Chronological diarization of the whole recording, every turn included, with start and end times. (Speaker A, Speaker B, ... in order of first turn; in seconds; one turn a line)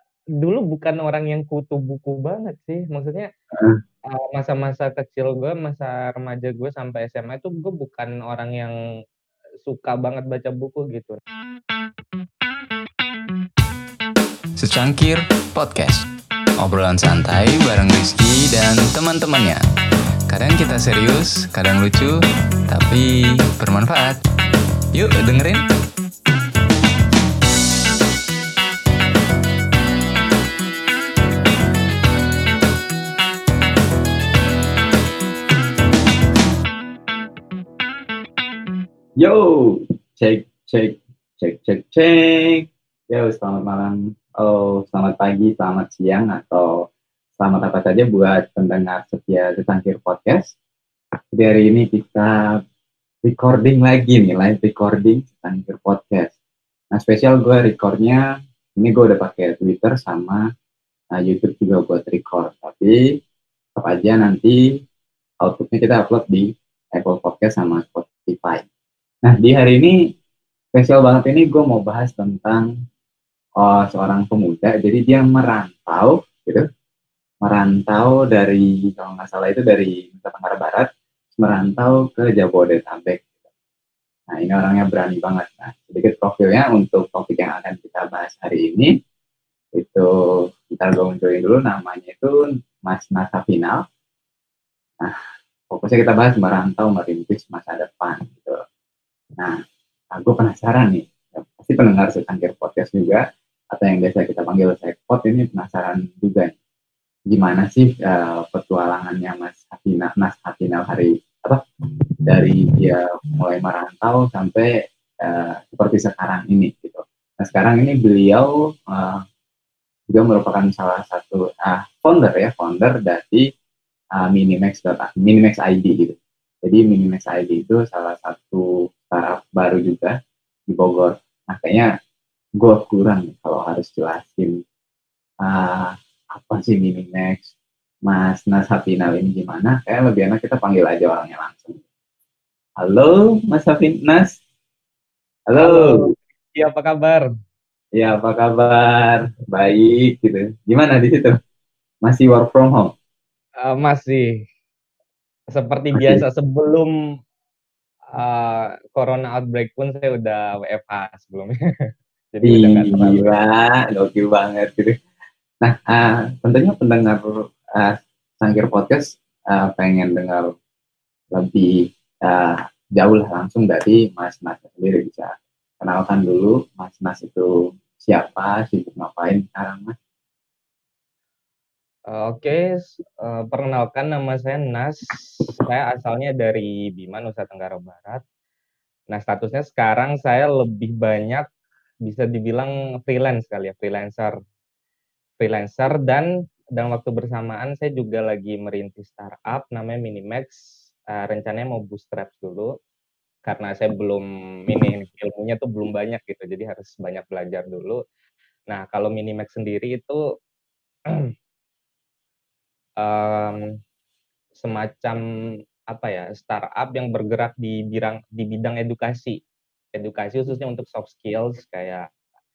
Speaker A: 0.4-3.3
Speaker A: 4.1-8.7
Speaker A: 9.6-11.2
Speaker B: 14.6-16.1
Speaker B: 16.6-19.6
Speaker B: 20.3-24.2
Speaker B: 24.9-25.7
Speaker C: 39.2-46.8
Speaker C: 47.4-50.5
Speaker C: 51.3-52.6
Speaker C: 53.2-56.3
Speaker C: 56.9-58.2
Speaker C: 58.8-60.4
Speaker C: 61.1-63.0
Speaker C: 63.8-64.6
Speaker C: 65.4-68.7
Speaker C: 69.2-69.9
Speaker C: 70.7-72.7
Speaker C: 73.6-76.6
Speaker C: 77.4-83.3
Speaker C: 84.3-88.9
Speaker C: 89.8-90.1
Speaker C: 90.7-93.8
Speaker C: 95.7-98.6
Speaker C: 100.1-106.5
Speaker C: 107.3-111.6
Speaker C: 112.2-114.7
Speaker C: 115.2-119.2
Speaker C: 120.1-123.4
Speaker C: 124.2-130.1
Speaker C: 130.7-131.9
Speaker C: 132.6-134.6
Speaker C: 135.4-137.5
Speaker C: 138.1-141.8
Speaker C: 142.8-144.4
Speaker C: 145.5-146.1
Speaker A: 145.6-147.2
Speaker C: 147.9-151.4
Speaker C: 152.0-152.9
Speaker A: 153.6-154.4
Speaker A: 155.5-156.9
Speaker C: 155.9-156.2
Speaker A: 158.2-161.5
Speaker A: 162.3-163.3
Speaker C: 162.4-164.9
Speaker C: 165.6-170.5
Speaker C: 171.3-179.9
Speaker A: 182.1-188.2
Speaker A: 189.1-191.4
Speaker A: 192.0-194.3
Speaker A: 195.4-202.7
Speaker A: 203.4-208.0
Speaker A: 208.7-210.2
Speaker A: 213.0-213.7
Speaker A: 214.6-215.2
Speaker A: 215.9-219.4
Speaker A: 219.9-222.1